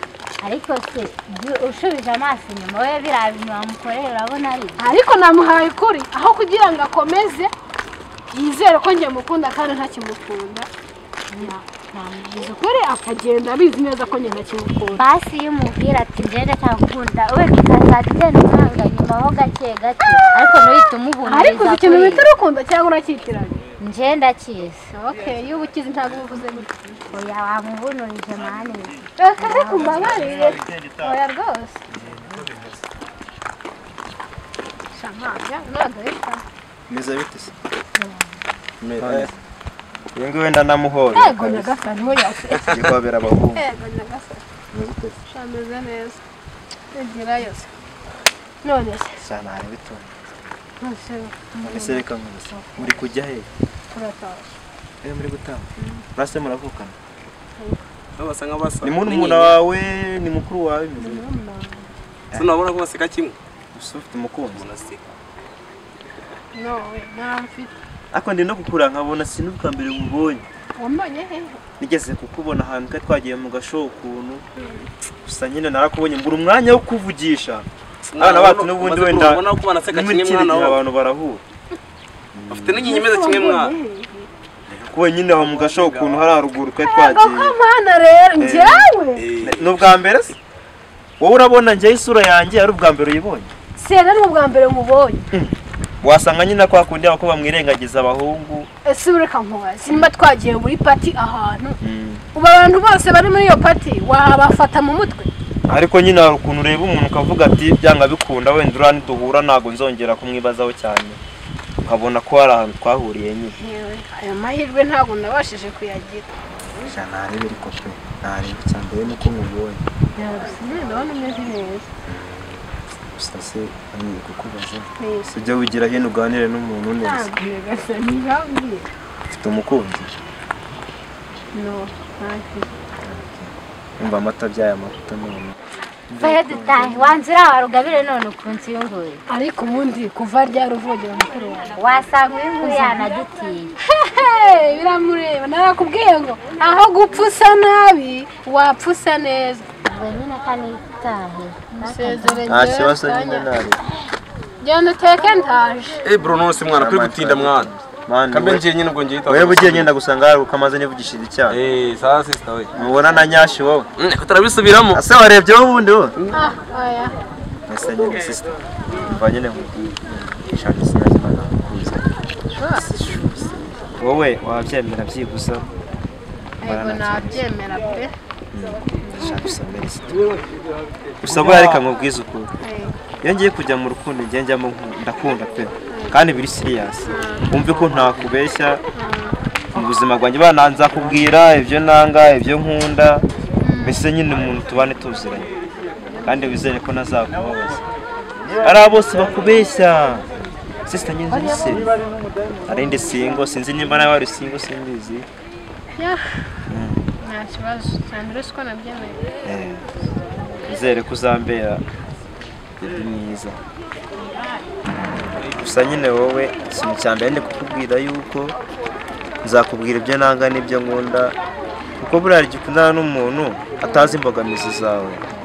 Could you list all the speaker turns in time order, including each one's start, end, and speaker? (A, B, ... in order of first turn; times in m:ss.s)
0:00.4-0:04.9 A
0:04.8-0:07.5 B
0:08.3-0:10.7 B
0:11.3-0:15.0 B
0:14.9-0:22.3 A
0:21.2-0:23.6 B
0:23.8-0:24.9 A
0:24.9-0:26.7 B
0:27.1-0:30.1 A
0:29.2-0:31.8 B
0:29.6-0:31.2 C
0:31.9-0:32.8 C
0:34.9-0:36.4 B
0:36.9-0:37.6 C
0:38.0-0:38.3 B
0:38.8-0:39.3 D
0:39.0-0:39.3 C
0:40.2-0:41.7 C
0:41.1-0:43.0 B
0:42.6-0:43.6 C
0:43.6-0:44.4 B
0:44.7-0:45.2 C
0:45.3-0:46.2 B
0:46.9-0:47.7 B
0:48.6-0:49.2 B
0:49.2-0:50.1 C
0:50.8-0:53.0 B
0:51.6-0:53.5 C
0:53.9-0:54.6 B
0:55.0-0:57.0 C
0:55.8-0:56.0 B
0:57.6-0:57.9 B
0:58.2-0:59.6 D
0:58.8-1:01.2 C
1:01.0-1:01.9 B
1:02.3-1:03.4 D
1:03.7-1:04.6 C
1:04.5-1:05.0 D
1:06.5-1:07.7 B
1:08.1-1:10.4 C
1:10.8-1:11.6 B
1:11.8-1:14.4 C
1:14.6-1:14.9 B
1:15.2-1:17.7 C
1:18.1-1:20.8 D
1:18.2-1:21.4 C
1:22.3-1:22.9 C
1:22.5-1:23.7 D
1:22.8-1:24.3 B
1:24.7-1:26.3 D
1:24.8-1:27.6 C
1:26.8-1:29.3 B
1:28.4-1:28.9 C
1:29.2-1:29.9 D
1:29.4-1:30.4 C
1:31.2-1:33.5 C
1:33.8-1:35.3 B
1:35.3-1:38.7 C
1:38.8-1:41.8 B
1:41.8-1:42.2 C
1:42.3-1:45.3 B
1:45.7-1:51.2 C
1:51.8-1:53.6 C
1:53.6-1:56.3 B
1:56.9-1:59.8 C
2:00.2-2:01.9 B
2:03.2-2:07.3 C
2:05.0-2:05.3 B
2:07.0-2:08.9 B
2:09.3-2:10.2 C
2:11.5-2:12.7 B
2:13.0-2:15.6 C
2:16.1-2:17.2 C
2:16.2-2:19.2 A
2:19.3-2:21.8 B
2:21.8-2:23.7 A
2:22.6-2:23.2 B
2:23.8-2:29.7 B
2:29.8-2:32.6 A
2:31.7-2:33.5 B
2:32.5-2:33.8 C
2:34.6-2:36.0 B
2:36.0-2:37.7 D
2:36.7-2:38.6 C
2:38.3-2:39.9 D
2:39.3-2:41.6 C
2:41.5-2:42.7 D
2:42.8-2:43.9 C
2:44.0-2:45.0 D
2:44.9-2:46.2 C
2:46.3-2:47.2 B
2:47.7-2:55.7 C
2:49.0-2:49.2 B
2:52.5-2:52.9 B
2:56.6-2:58.1 B
2:56.6-2:57.4 C
2:58.5-3:00.3 C
2:59.0-2:59.6 B
3:01.2-3:02.5 C
3:01.3-3:01.8 D
3:02.6-3:03.0 B
3:03.2-3:08.8 C
3:05.9-3:06.2 B
3:07.0-3:07.6 B
3:08.9-3:09.4 B
3:09.7-3:13.3 C
3:13.6-3:14.0 B
3:13.8-3:15.5 C
3:16.2-3:17.8 C
3:18.6-3:20.3 C
3:20.9-3:22.0 C
3:22.6-3:25.3 C
3:26.7-3:27.1 C
3:27.2-3:29.3 B
3:29.4-3:29.8 C
3:30.6-3:31.8 C
3:32.8-3:33.6 C
3:35.6-3:38.6 C
3:39.4-3:41.4 C
3:42.0-3:45.3 C